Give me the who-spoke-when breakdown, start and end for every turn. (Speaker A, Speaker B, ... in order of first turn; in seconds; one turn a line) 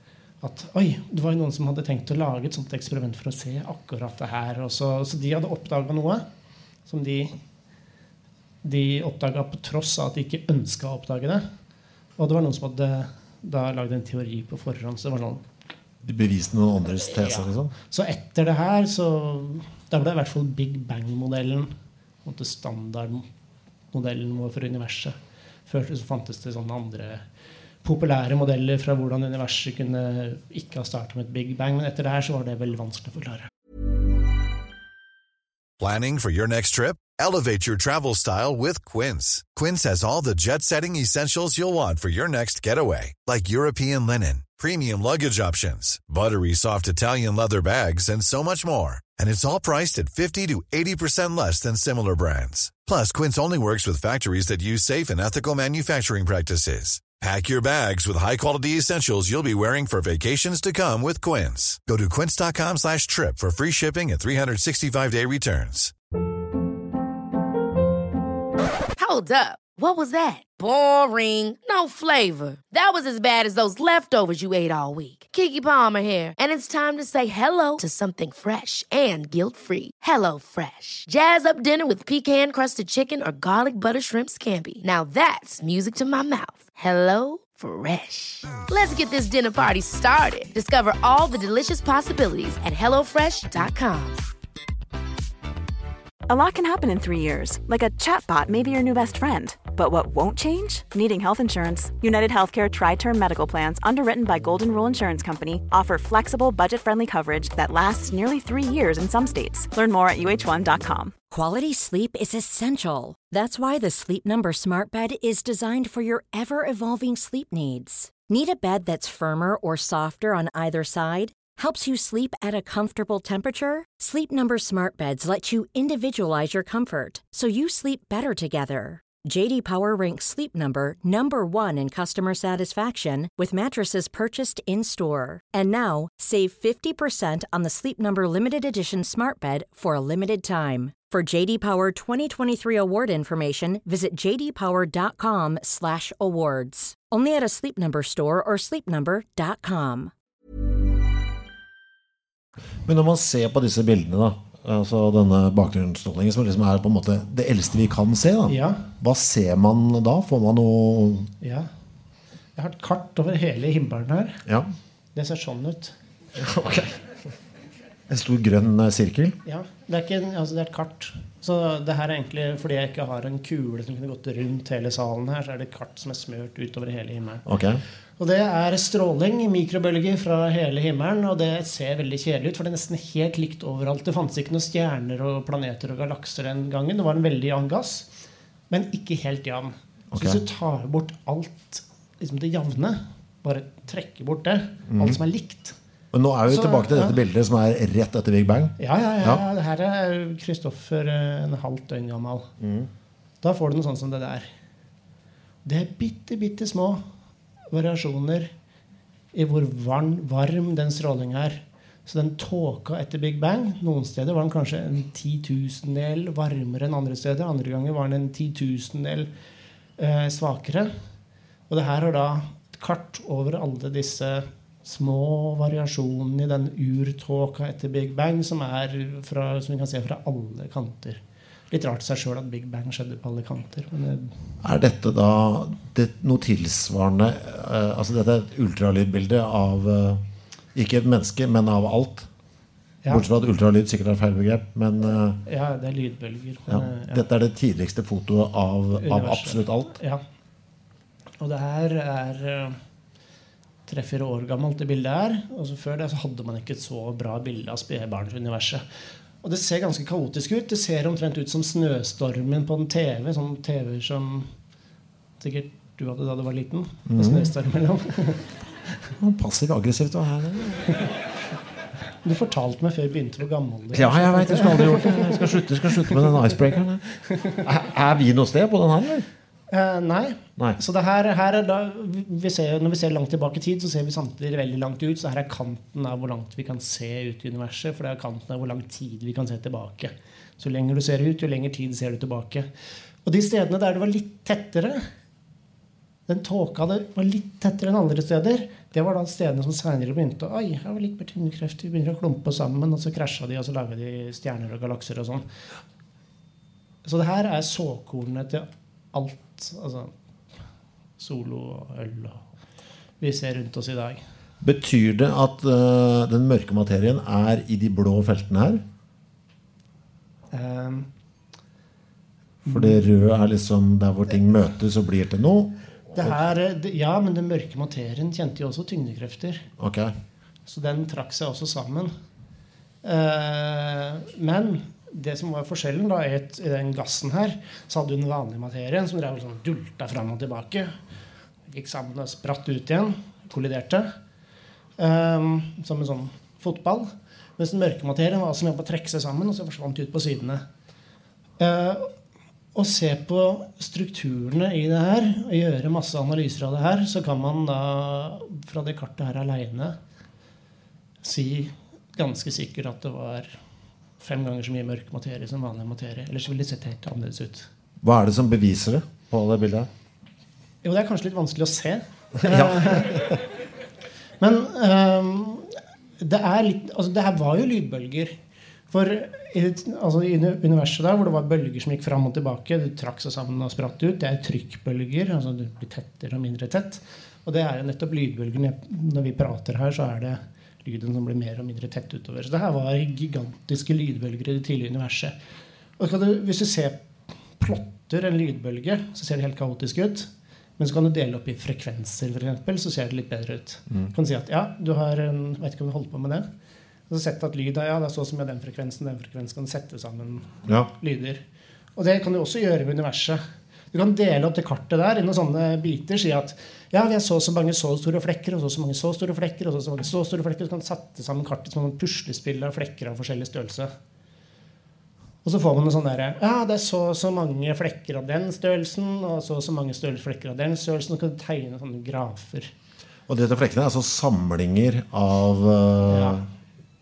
Speaker A: 0.4-6.2
Speaker A: 6.9-7.4
Speaker A: 8.6-11.4
Speaker A: 12.2-15.4
Speaker B: 16.0-17.7
Speaker A: 17.1-21.7
Speaker A: 22.2-23.3
Speaker A: 23.9-25.2
Speaker A: 25.7-27.2
Speaker A: 27.8-33.5
Speaker C: 35.8-65.9
Speaker D: 69.0-94.2
Speaker E: 96.3-111.1
Speaker F: 111.3-150.1
Speaker B: 152.8-161.3
Speaker A: 158.5-158.9
Speaker A: 161.4-161.7
Speaker A: 162.6-164.4
Speaker B: 164.5-164.7
Speaker A: 165.2-165.9
Speaker B: 166.4-167.0
Speaker B: 168.1-169.4
Speaker A: 169.4-177.5
Speaker B: 177.5-177.8
Speaker A: 178.2-188.1
Speaker A: 188.7-195.8
Speaker B: 190.1-190.4
Speaker B: 194.9-195.2
Speaker B: 196.1-199.4
Speaker A: 196.5-197.2
Speaker A: 198.8-202.5
Speaker B: 202.6-202.9
Speaker A: 203.4-204.5
Speaker A: 205.7-207.0
Speaker A: 207.7-208.5
Speaker A: 209.3-219.3
Speaker A: 220.0-220.9
Speaker A: 221.7-234.4
Speaker B: 234.6-242.3
Speaker B: 243.1-245.4
Speaker A: 245.5-247.2
Speaker B: 246.7-250.0
Speaker A: 248.9-250.2
Speaker A: 251.4-252.8
Speaker A: 253.9-258.9
Speaker A: 259.4-264.5
Speaker A: 265.4-268.5
Speaker B: 267.1-267.5
Speaker B: 269.2-271.0
Speaker A: 272.2-276.4
Speaker B: 273.9-279.3
Speaker A: 277.3-277.6
Speaker A: 279.7-292.7
Speaker A: 293.2-295.1
Speaker A: 296.3-305.5
Speaker A: 307.1-310.1
Speaker A: 311.2-312.5
Speaker A: 313.2-314.2
Speaker B: 314.6-318.8
Speaker A: 320.5-321.1
Speaker A: 322.6-323.0
Speaker B: 322.7-326.4
Speaker A: 326.1-329.7
Speaker B: 329.8-330.1
Speaker A: 330.7-332.1
Speaker A: 333.0-341.0
Speaker A: 341.7-344.1
Speaker A: 345.0-350.6
Speaker A: 351.6-352.1
Speaker A: 352.8-360.0
Speaker A: 361.2-363.6
Speaker A: 364.2-367.7
Speaker B: 368.0-369.9
Speaker A: 370.8-373.4
Speaker B: 372.4-373.4
Speaker A: 374.4-378.3
Speaker A: 378.9-395.4
Speaker A: 396.0-397.1
Speaker A: 397.6-406.5
Speaker A: 407.1-411.4
Speaker A: 412.0-423.9
Speaker A: 425.4-432.7
Speaker B: 433.3-436.5
Speaker A: 436.1-436.4